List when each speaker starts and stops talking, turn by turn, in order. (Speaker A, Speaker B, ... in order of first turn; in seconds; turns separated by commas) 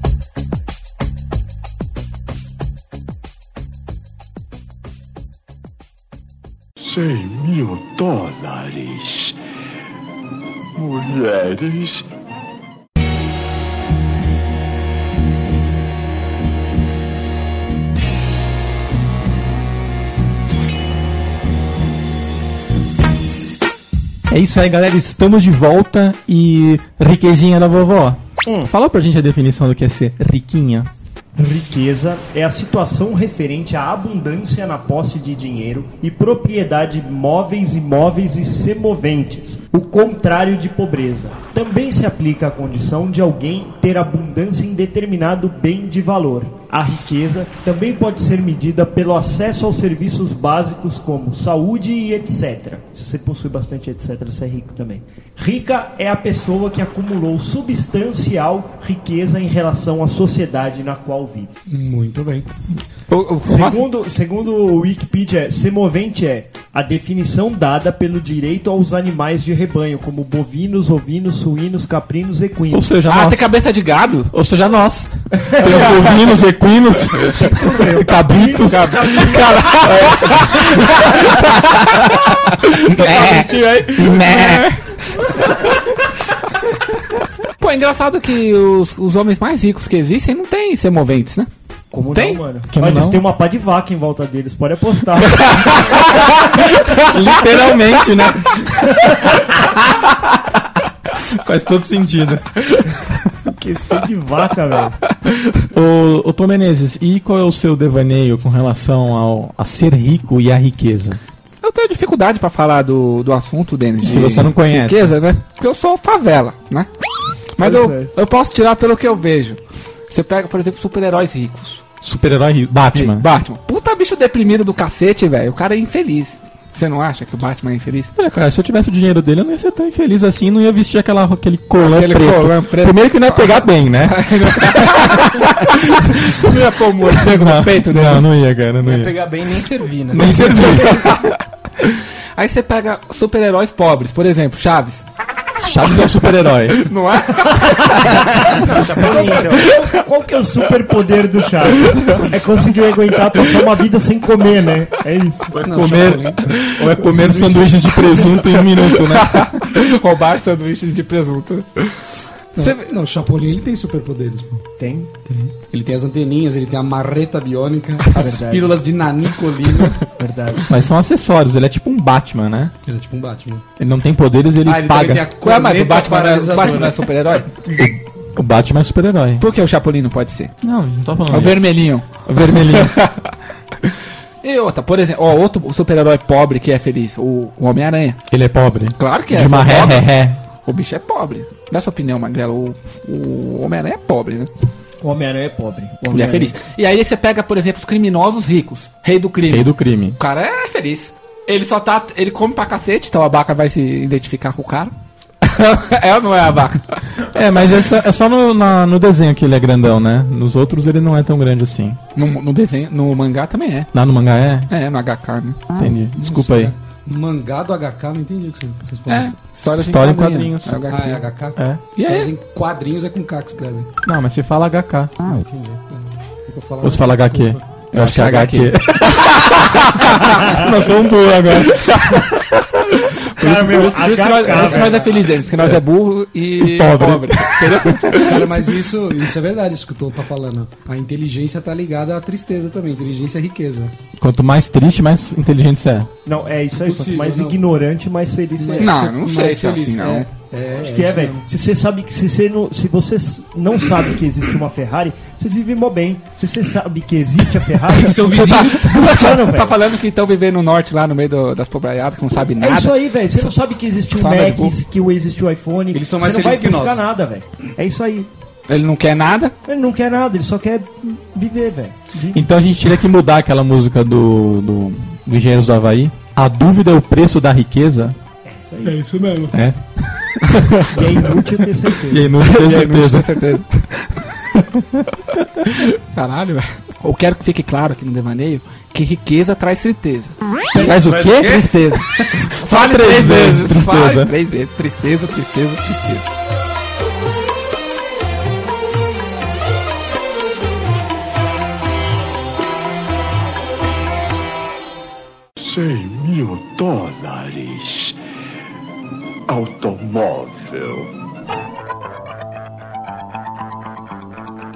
Speaker A: 6.8-9.4, Speaker A: 10.8-12.1, Speaker B: 24.3-30.9, Speaker C: 28.4-28.7, Speaker C: 31.4-61.5, Speaker D: 61.7-62.5, Speaker E: 63.1-63.9, Speaker C: 63.5-72.9, Speaker B: 72.7-73.5, Speaker E: 73.1-74.3, Speaker B: 74.3-82.2, Speaker C: 75.5-76.1, Speaker E: 75.7-76.0, Speaker C: 77.3-80.0, Speaker E: 78.7-84.8, Speaker B: 82.8-84.7, Speaker E: 87.6-91.5, Speaker C: 91.9-96.1, Speaker E: 92.1-92.4, Speaker B: 92.7-93.2, Speaker B: 97.0-100.6, Speaker B: 101.2-102.9, Speaker C: 103.5-105.0, Speaker B: 105.7-111.2, Speaker E: 111.6-116.9, Speaker B: 114.0-115.2, Speaker E: 117.6-119.6, Speaker C: 117.6-118.1, Speaker E: 120.1-121.8, Speaker B: 122.0-123.3, Speaker E: 122.9-128.1, Speaker B: 128.2-136.5, Speaker E: 131.8-138.3, Speaker B: 137.1-139.3, Speaker F: 138.8-140.4, Speaker B: 140.1-141.3, Speaker E: 140.4-141.3, Speaker E: 142.4-145.1, Speaker B: 145.6-146.9, Speaker E: 146.8-148.5, Speaker C: 147.9-155.6, Speaker F: 148.6-149.7, Speaker E: 149.1-149.9, Speaker D: 155.6-156.5, Speaker B: 155.7-159.6, Speaker C: 157.0-157.5, Speaker E: 158.9-162.9, Speaker D: 162.6-164.7, Speaker C: 164.8-165.1, Speaker D: 165.3-170.0, Speaker C: 168.1-168.8, Speaker C: 170.2-170.7, Speaker B: 170.7-172.7, Speaker D: 172.9-173.6, Speaker B: 173.8-175.3, Speaker D: 174.7-177.0, Speaker E: 175.4-177.5, Speaker B: 177.8-179.4, Speaker E: 179.4-180.5, Speaker B: 180.6-181.7, Speaker E: 181.3-183.2, Speaker B: 182.2-183.0, Speaker E: 183.9-188.2, Speaker B: 188.3-190.4, Speaker E: 189.0-190.1, Speaker E: 190.7-194.5, Speaker C: 195.0-196.5, Speaker E: 196.1-207.0, Speaker B: 199.5-200.2, Speaker B: 207.3-212.0, Speaker E: 212.2-213.9, Speaker B: 213.9-214.7, Speaker E: 214.7-215.6, Speaker B: 215.8-216.7, Speaker D: 216.2-219.3, Speaker E: 219.1-221.2, Speaker B: 219.8-220.8, Speaker D: 220.9-223.9, Speaker E: 222.0-222.3, Speaker B: 224.0-225.2, Speaker D: 225.4-227.6, Speaker B: 226.8-232.2, Speaker E: 227.9-229.3, Speaker C: 233.4-235.1, Speaker E: 233.4-238.6, Speaker D: 234.6-234.9, Speaker B: 236.6-238.3, Speaker D: 238.2-243.9, Speaker B: 244.2-246.1, Speaker C: 246.2-249.0, Speaker D: 246.8-247.6, Speaker D: 248.6-251.5, Speaker E: 248.8-250.3, Speaker C: 250.8-259.8, Speaker D: 257.9-259.0, Speaker E: 258.3-263.5, Speaker C: 262.6-268.3, Speaker E: 264.1-264.8, Speaker D: 265.9-267.0, Speaker E: 268.7-269.5, Speaker C: 269.7-272.5, Speaker B: 272.3-278.2, Speaker C: 278.5-279.1, Speaker F: 278.9-279.6, Speaker B: 279.5-281.3, Speaker C: 280.9-282.3, Speaker B: 282.1-283.4, Speaker E: 282.4-283.9, Speaker B: 284.5-285.1, Speaker E: 285.7-290.4, Speaker B: 290.7-294.3, Speaker D: 290.8-291.7, Speaker E: 292.5-296.3, Speaker A: 305.6-308.2, Speaker A: 309.5-311.1